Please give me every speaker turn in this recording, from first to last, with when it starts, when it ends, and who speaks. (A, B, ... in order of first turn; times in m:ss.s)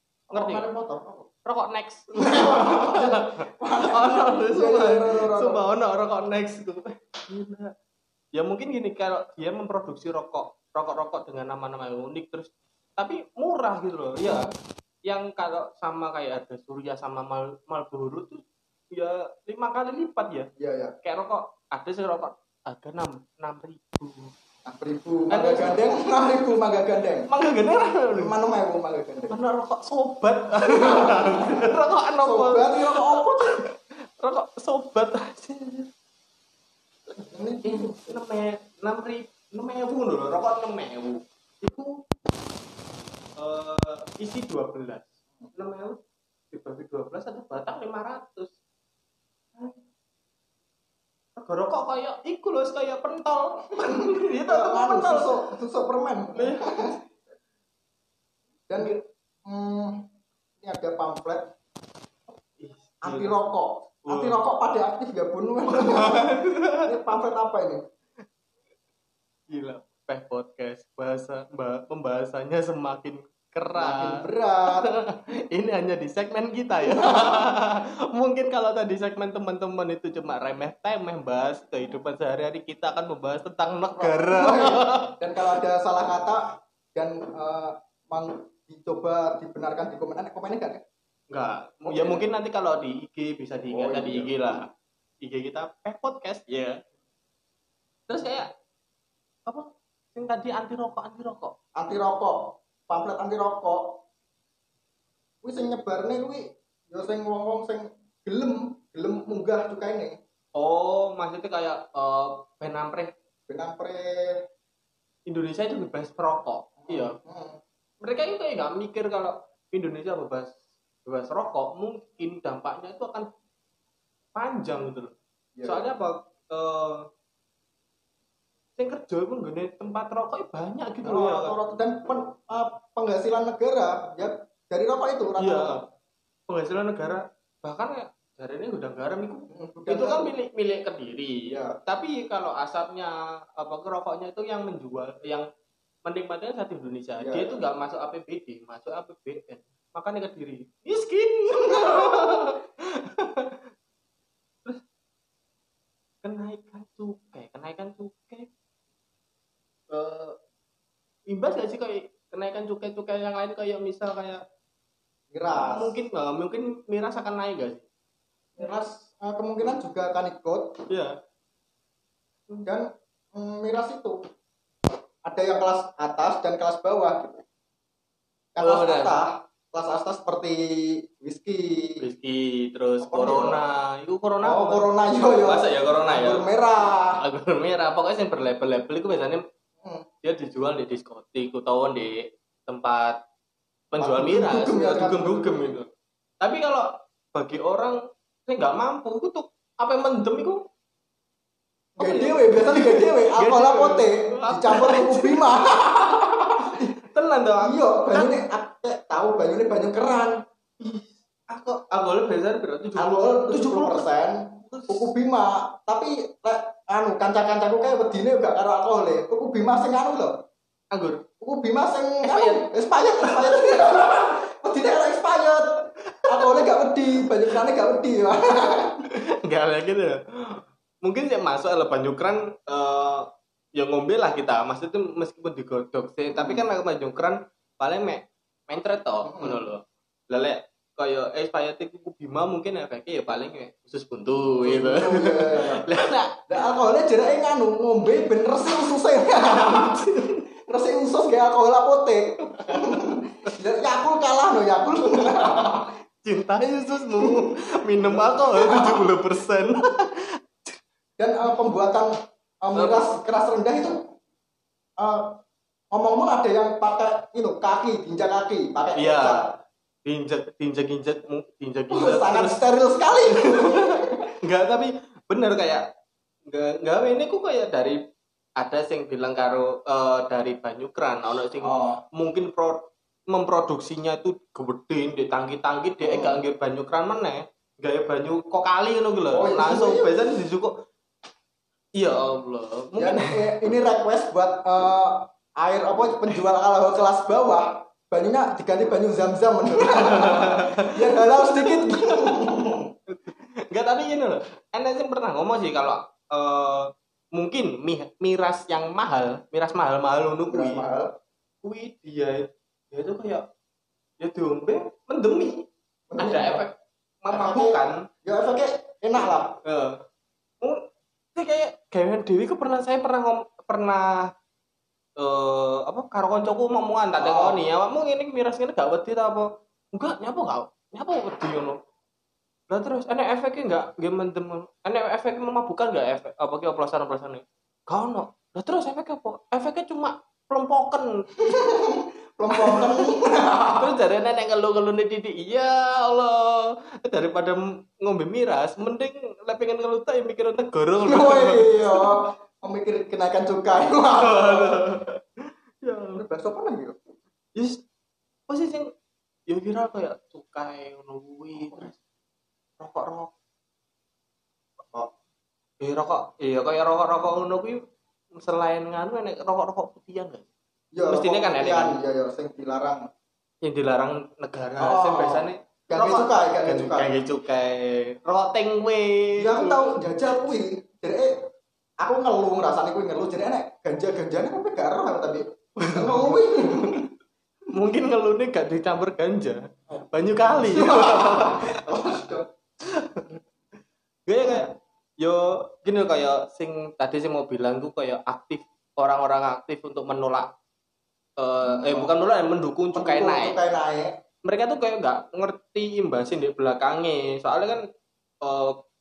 0:00.3-0:01.3 A
0:00.3-0:00.7 B
0:01.4-0:03.3 B
0:02.2-0:05.6 A
0:03.8-0:07.7 B
0:08.4-0:14.5 B
0:14.2-0:14.5 A
0:15.0-0:20.5 B
0:20.6-0:20.9 A
0:21.0-0:24.3 B
0:24.6-0:27.3 A
0:25.3-0:25.9 B
0:27.3-0:28.3 B
0:28.1-0:29.4 A
0:29.3-0:35.9 B
0:30.7-0:31.7 A
0:32.2-0:33.6 A
0:37.2-0:38.2 A
0:37.6-0:42.0 B
0:43.4-0:46.0 B
0:46.5-0:48.5 B
0:51.4-0:55.4 B
0:54.0-0:57.0 A
0:56.4-0:57.0 B
0:58.7-1:00.0 A
1:00.6-1:01.5 A
1:02.6-1:03.4 B
1:03.0-1:07.8 A
1:04.1-1:04.4 B
1:05.7-1:06.9 B
1:09.5-1:25.2 B
1:13.8-1:14.9 A
1:16.8-1:17.5 A
1:24.0-1:30.8 A
1:31.3-1:34.7 B
1:31.8-1:32.2 A
1:33.7-1:34.6 A
1:35.2-1:36.8 B
1:38.1-1:38.5 B
1:39.5-1:41.6 B
1:41.8-1:44.0 A
1:45.4-1:50.2 A
1:50.6-1:53.1 B
1:53.5-1:54.4 A
1:55.3-1:57.2 B
1:56.9-1:57.6 A
1:58.0-2:03.3 B
2:04.4-2:07.0 B
2:05.6-2:05.8 A
2:08.8-2:11.6 B
2:11.0-2:15.8 A
2:15.4-2:15.8 B
2:16.5-2:25.5 B
2:19.5-2:20.3 A
2:21.5-2:21.8 A
2:26.0-2:33.6 B
2:27.2-2:27.6 A
2:31.7-2:32.2 A
2:36.2-2:38.5 B
2:39.9-2:40.4 B
2:41.3-2:44.4 B
2:45.3-2:46.0 A
2:45.5-2:47.8 B
2:48.6-2:50.8 A
2:50.9-2:51.1 B
2:52.7-2:54.2 A
2:55.2-2:57.4 A
2:58.6-3:02.0 A
2:58.6-2:59.2 B
3:02.0-3:06.5 B
3:03.0-3:03.6 A
3:04.4-3:07.2 A
3:07.2-3:09.4 B
3:10.2-3:13.2 B
3:13.9-3:15.9 B
3:14.0-3:15.6 A
3:16.4-3:20.6 B
3:22.0-3:25.8 B
3:22.0-3:26.9 A
3:26.6-3:28.4 B
3:27.6-3:30.4 A
3:30.8-3:34.1 B
3:33.0-3:40.3 A
3:34.7-3:35.1 B
3:40.9-3:41.2 B
3:41.4-3:49.0 A
3:42.2-3:44.3 B
3:46.2-3:46.7 B
3:49.1-4:06.5 B
3:56.3-3:56.7 A
3:59.2-3:59.6 A
4:04.6-4:05.8 A
4:06.5-4:10.1 A
4:09.4-4:10.4 B
4:10.7-4:15.9 A
4:12.6-4:13.2 B
4:15.2-4:20.3 B
4:17.1-4:17.5 A
4:18.0-4:19.1 A
4:21.2-4:24.0 A
4:22.7-4:23.2 B
4:25.0-4:25.4 A
4:25.9-4:29.5 A
4:29.0-4:29.5 B
4:30.0-4:32.7 B
4:31.9-4:34.2 A
4:33.3-4:35.8 B
4:36.5-4:38.0 B
4:38.6-4:50.7 B
4:41.6-4:42.0 A
4:46.0-4:46.4 A
4:49.3-4:50.1 A
4:52.0-4:53.4 B
4:53.0-5:02.9 A
4:59.8-5:02.4 B
5:03.1-5:10.9 B
5:10.5-5:11.1 A
5:11.6-5:13.4 B
5:14.2-5:15.6 B
5:16.1-5:16.6 A
5:16.2-5:18.0 B
5:17.3-5:19.6 A
5:19.6-5:20.0 B
5:21.4-5:24.3 B
5:25.2-5:31.8 B
5:27.2-5:27.6 A
5:32.7-5:41.6 B
5:41.4-5:43.9 A
5:42.5-5:42.9 B
5:43.8-5:52.0 B
5:51.0-5:54.8 A
5:54.2-5:55.2 B
5:55.8-5:56.2 B
5:56.2-5:57.0 A
5:57.6-5:57.8 B
5:58.5-5:58.9 B
5:59.5-6:02.0 B
6:01.6-6:01.9 A
6:02.8-6:03.3 B
6:05.8-6:07.8 B
6:08.3-6:10.5 B
6:10.9-6:13.1 A
6:11.0-6:12.0 B
6:13.6-6:20.0 B
6:14.8-6:17.1 A
6:19.4-6:21.4 A
6:22.0-6:27.1 A
6:25.8-6:27.0 B
6:27.7-6:32.3 B
6:29.9-6:32.5 A
6:32.8-6:33.4 B
6:34.3-6:40.5 B
6:34.4-6:34.7 A
6:41.4-6:43.6 B
6:41.6-6:42.2 A
6:43.0-6:44.1 A
6:44.4-6:47.8 B
6:48.4-6:48.8 B